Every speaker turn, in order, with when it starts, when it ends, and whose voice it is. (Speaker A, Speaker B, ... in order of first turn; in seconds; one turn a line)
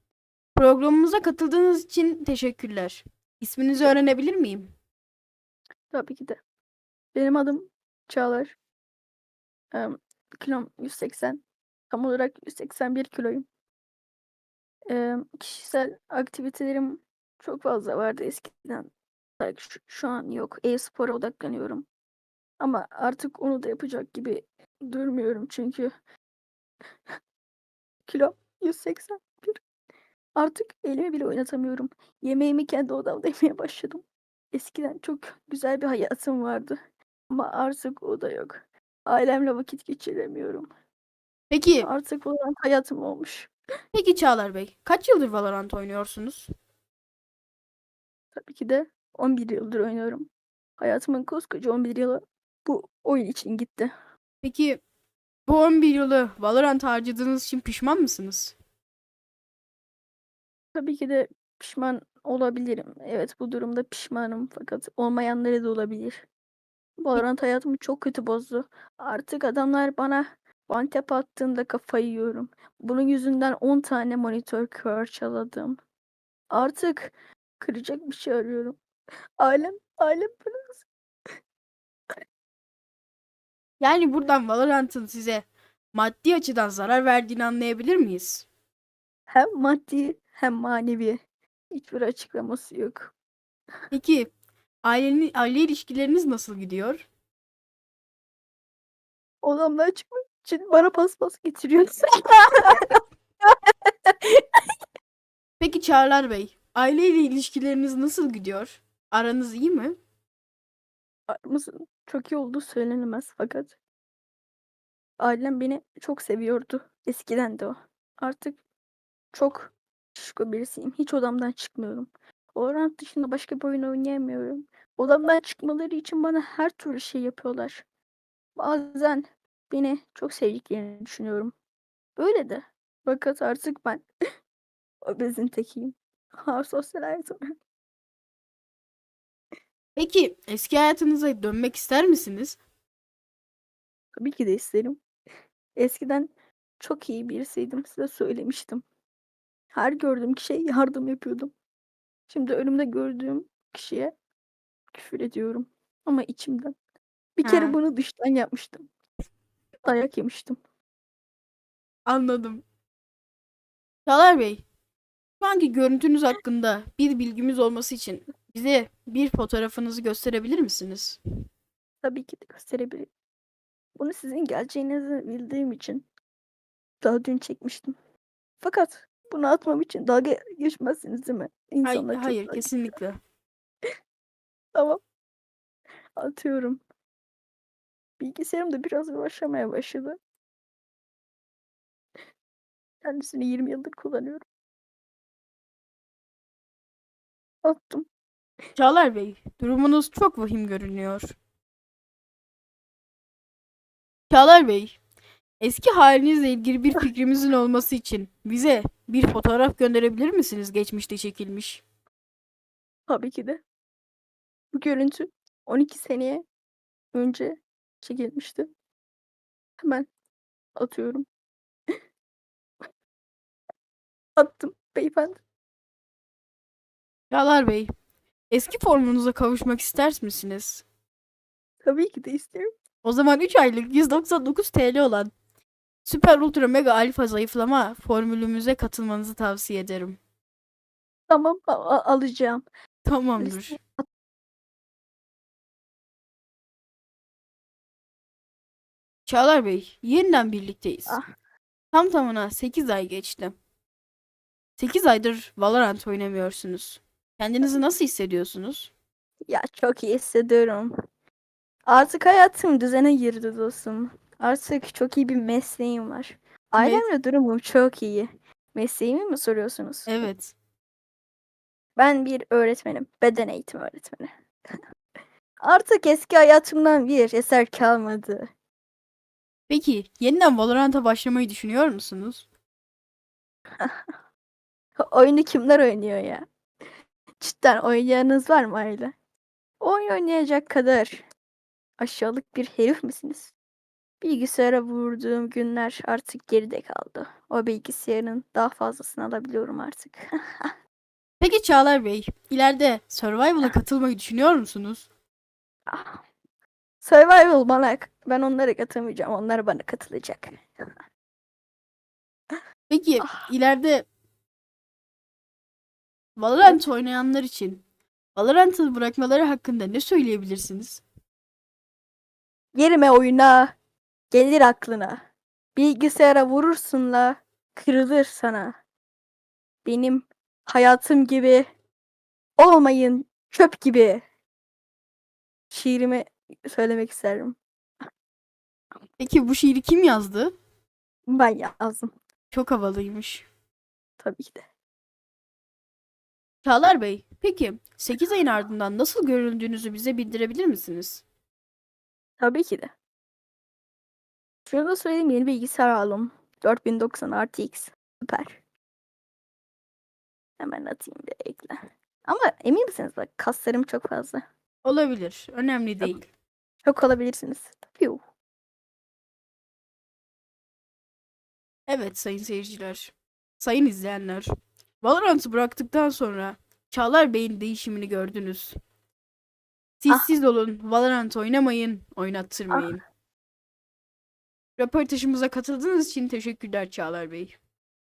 Speaker A: 0.6-4.7
Speaker B: 5.9-6.4
Speaker B: 7.1-8.6
Speaker B: 9.7-13.4
Speaker B: 14.9-21.9
Speaker B: 22.6-25.9
Speaker B: 28.1-29.6
Speaker B: 30.4-36.8
Speaker B: 37.3-40.7
Speaker A: 41.5-41.9
Speaker B: 41.8-43.5
Speaker A: 43.9-46.5
Speaker B: 48.3-53.9
Speaker A: 54.4-54.8
Speaker A: 55.5-58.5
Speaker B: 60.7-66.2
Speaker B: 67.0-75.8
Speaker B: 76.5-78.8
Speaker B: 79.4-80.9
Speaker A: 83.8-88.5
Speaker B: 89.3-93.1
Speaker A: 93.9-94.3
Speaker A: 94.8-97.1
Speaker B: 99.4-104.6
Speaker A: 105.6-109.9
Speaker B: 111.3-113.8
Speaker B: 115.2-118.6
Speaker B: 119.3-127.8
Speaker B: 128.6-131.5
Speaker B: 132.2-134.0
Speaker B: 135.0-137.4
Speaker A: 139.9-142.6
Speaker B: 144.1-145.0
Speaker B: 145.8-148.8
Speaker B: 149.7-151.5
Speaker B: 152.3-154.1
Speaker B: 154.9-156.7
Speaker B: 157.4-158.8
Speaker A: 157.4-157.8
Speaker B: 159.8-160.6
Speaker A: 162.1-162.6
Speaker A: 164.1-164.6
Speaker A: 165.4-171.2
Speaker B: 172.0-173.1
Speaker B: 174.0-176.1
Speaker B: 177.0-177.9
Speaker B: 178.6-182.7
Speaker A: 181.8-183.2
Speaker B: 184.7-185.0
Speaker B: 186.2-186.8
Speaker B: 188.2-190.2
Speaker B: 193.0-194.4
Speaker B: 197.6-198.1
Speaker A: 198.8-201.3
Speaker A: 204.3-205.0
Speaker A: 205.6-211.8
Speaker B: 213.1-213.6
Speaker B: 214.7-216.4
Speaker B: 217.1-218.7
Speaker B: 219.8-220.1
Speaker B: 220.8-221.2
Speaker B: 224.4-225.4
Speaker A: 227.3-227.9
Speaker A: 228.5-230.8
Speaker B: 231.8-232.7
Speaker A: 233.0-235.3
Speaker A: 236.0-240.2
Speaker B: 241.3-242.6
Speaker A: 243.1-243.8
Speaker B: 243.4-244.0
Speaker A: 249.2-251.2
Speaker A: 251.9-253.5
Speaker A: 254.8-258.9
Speaker B: 259.5-260.9
Speaker B: 261.9-270.3
Speaker A: 266.8-267.0
Speaker A: 270.1-270.5
Speaker B: 271.9-274.8
Speaker B: 275.6-278.5
Speaker A: 279.7-282.5
Speaker B: 283.8-284.1
Speaker B: 285.0-286.4
Speaker B: 287.4-289.1
Speaker B: 289.8-291.2
Speaker B: 292.0-293.5
Speaker B: 294.2-300.7
Speaker A: 301.4-305.1
Speaker B: 305.9-306.2
Speaker B: 307.0-310.6
Speaker A: 312.9-314.1
Speaker B: 313.2-313.5
Speaker A: 316.4-317.8
Speaker A: 318.3-321.0
Speaker B: 322.7-323.7
Speaker B: 324.3-325.2
Speaker B: 325.8-328.7
Speaker B: 329.8-331.7
Speaker B: 332.6-334.2
Speaker B: 335.7-337.6
Speaker A: 339.2-340.5
Speaker B: 341.3-342.1
Speaker A: 342.5-343.4
Speaker B: 344.2-344.6
Speaker A: 346.6-351.2
Speaker B: 352.4-352.9
Speaker B: 354.7-358.6
Speaker B: 360.6-364.4
Speaker A: 364.8-366.3
Speaker B: 366.8-368.2
Speaker A: 371.9-374.5
Speaker A: 375.0-378.7
Speaker A: 380.0-383.0
Speaker A: 384.8-387.6